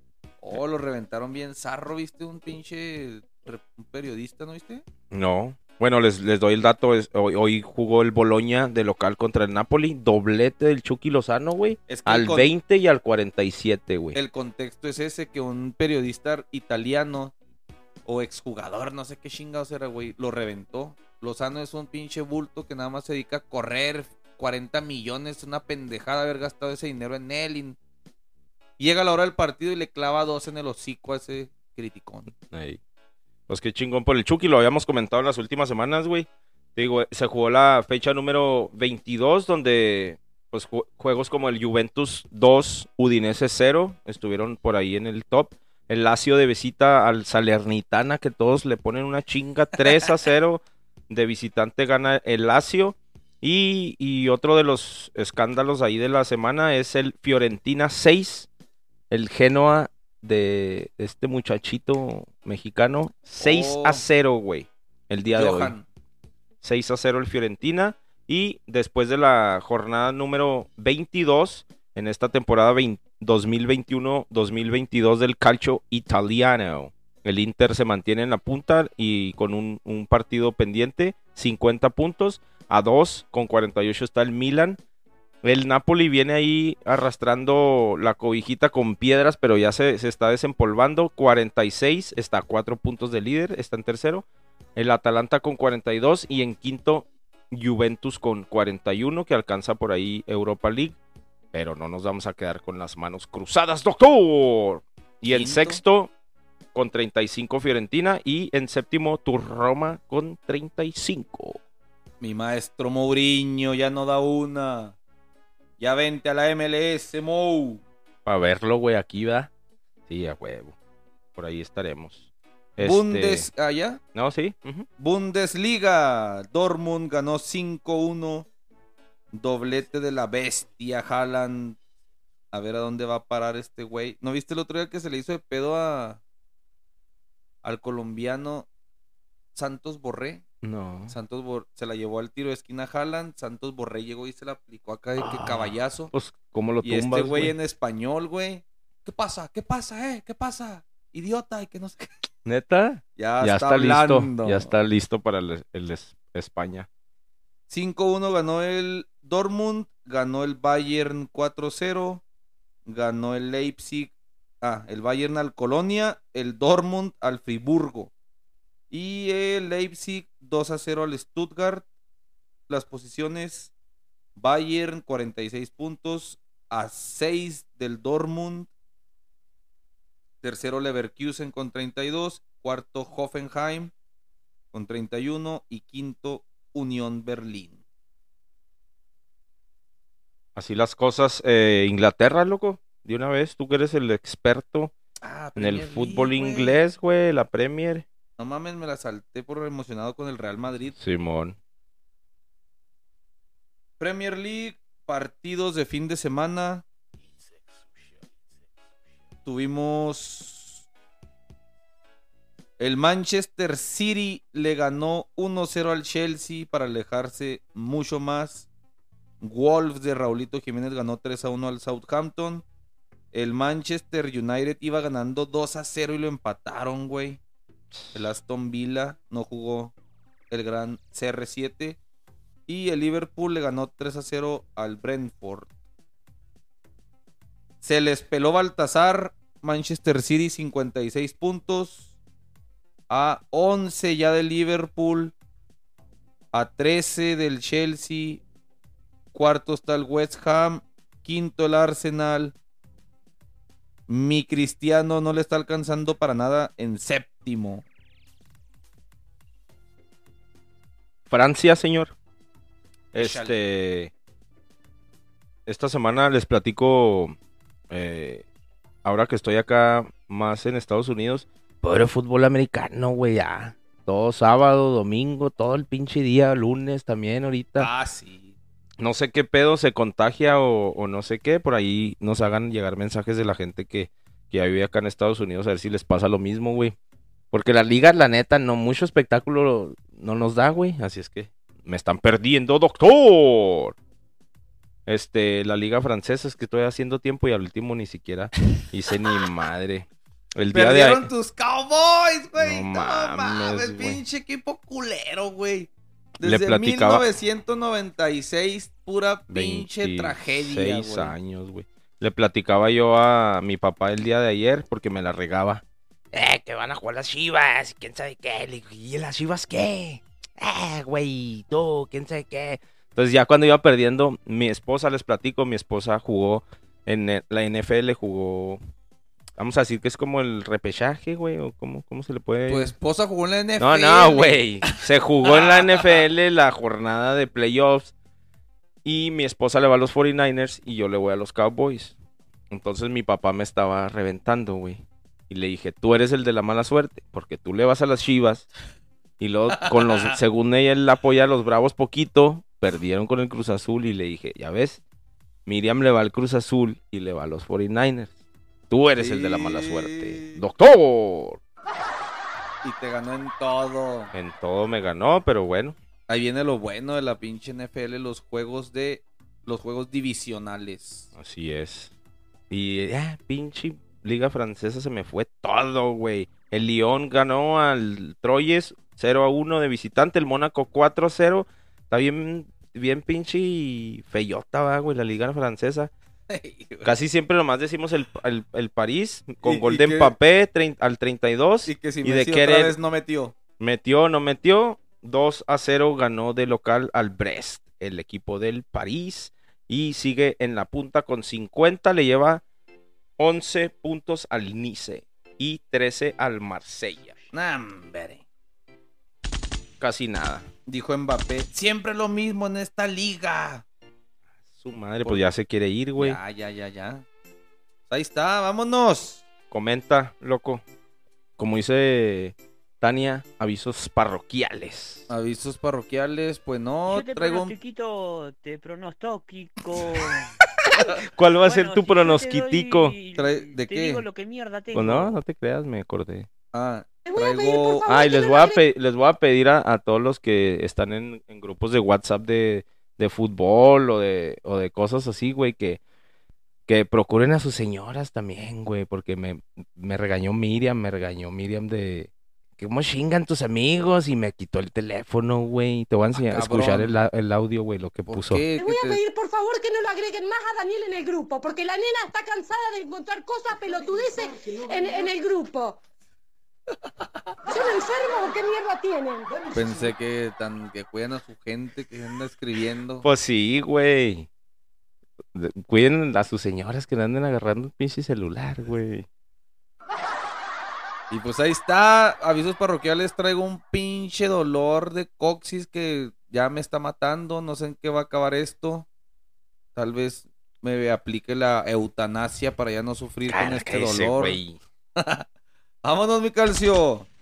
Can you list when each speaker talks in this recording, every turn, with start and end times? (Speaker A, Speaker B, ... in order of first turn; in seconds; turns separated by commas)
Speaker A: 0.4-4.8, Speaker B: 5.1-14.2, Speaker A: 11.9-12.5, Speaker A: 14.1-17.3, Speaker A: 18.1-27.8, Speaker A: 28.8-32.3, Speaker B: 32.5-32.8, Speaker B: 33.5-58.5, Speaker B: 59.1-65.7, Speaker A: 63.4-64.0, Speaker A: 65.3-65.8, Speaker B: 66.6-84.8, Speaker B: 85.4-94.2, Speaker B: 94.8-101.0, Speaker B: 101.5-106.1, Speaker A: 105.3-105.8, Speaker B: 106.7-111.6, Speaker A: 112.2-115.0, Speaker A: 115.8-117.8, Speaker B: 118.2-119.5, Speaker B: 120.1-120.8, Speaker B: 121.3-123.5, Speaker A: 122.8-124.0, Speaker B: 124.1-124.9, Speaker A: 125.0-128.5, Speaker A: 129.3-131.8, Speaker A: 132.5-136.2, Speaker A: 137.6-138.7, Speaker A: 139.5-140.4, Speaker B: 140.6-141.1, Speaker A: 141.1-146.1, Speaker B: 145.2-147.5, Speaker A: 146.8-152.2, Speaker B: 152.4-156.9, Speaker A: 153.2-154.7, Speaker A: 157.7-162.2, Speaker A: 162.8-168.1, Speaker A: 168.9-171.8, Speaker A: 172.7-173.7, Speaker A: 174.4-178.7, Speaker A: 180.4-183.9, Speaker A: 184.7-187.8, Speaker B: 190.6-194.9, Speaker A: 195.2-196.8, Speaker B: 195.6-198.0, Speaker A: 198.4-200.9, Speaker B: 200.9-201.6, Speaker A: 204.0-206.8, Speaker A: 209.4-210.8, Speaker A: 212.8-218.7, Speaker A: 219.4-222.6, Speaker A: 223.3-227.4, Speaker A: 228.1-229.9, Speaker A: 230.5-232.0, Speaker A: 232.7-235.7, Speaker A: 237.8-242.1, Speaker A: 243.1-245.3, Speaker A: 246.5-248.4, Speaker A: 249.3-252.5, Speaker A: 254.1-257.8, Speaker B: 261.3-262.1, Speaker B: 263.1-264.1, Speaker A: 263.1-263.6, Speaker B: 265.6-267.4, Speaker B: 267.9-268.4, Speaker B: 269.0-277.9, Speaker A: 277.8-278.6, Speaker B: 279.0-286.9, Speaker B: 287.5-293.9, Speaker B: 295.1-301.3, Speaker A: 300.7-311.3, Speaker B: 302.5-304.2, Speaker B: 306.4-307.2, Speaker B: 309.5-315.8, Speaker B: 316.3-328.8, Speaker B: 329.6-332.9, Speaker A: 332.7-336.2, Speaker B: 333.8-338.1, Speaker B: 339.0-342.2, Speaker B: 342.7-348.7, Speaker B: 349.4-355.0, Speaker A: 349.8-350.4, Speaker B: 355.6-358.4, Speaker B: 358.9-361.6, Speaker A: 359.2-360.6, Speaker A: 362.8-364.3, Speaker B: 364.3-365.9, Speaker A: 366.3-371.3, Speaker B: 371.3-372.1, Speaker B: 372.7-386.1, Speaker A: 386.5-387.1, Speaker B: 387.0-392.9, Speaker A: 389.6-390.3, Speaker A: 391.9-393.5, Speaker B: 393.8-402.6, Speaker B: 403.4-407.4, Speaker A: 407.5-408.4, Speaker B: 410.0-410.7, Speaker A: 410.9-413.8, Speaker B: 414.7-416.4, Speaker A: 416.2-417.2, Speaker A: 418.1-419.4, Speaker B: 419.7-420.8, Speaker B: 421.6-425.3, Speaker A: 425.3-427.7, Speaker C: 427.1-430.5, Speaker B: 431.3-433.1, Speaker C: 431.6-435.3, Speaker A: 433.3-434.2, Speaker B: 434.9-436.5, Speaker A: 436.7-438.1, Speaker D: 437.2-438.8, Speaker B: 438.1-446.0, Speaker B: 446.9-458.6, Speaker A: 456.3-457.1, Speaker A: 458.2-459.2, Speaker D: 458.8-466.0, Speaker D: 467.7-469.6, Speaker A: 469.7-473.2, Speaker B: 473.2-474.5, Speaker B: 475.5-479.2, Speaker A: 481.3-489.1, Speaker A: 489.9-494.6, Speaker B: 493.5-494.8, Speaker A: 495.2-495.4, Speaker A: 496.0-497.3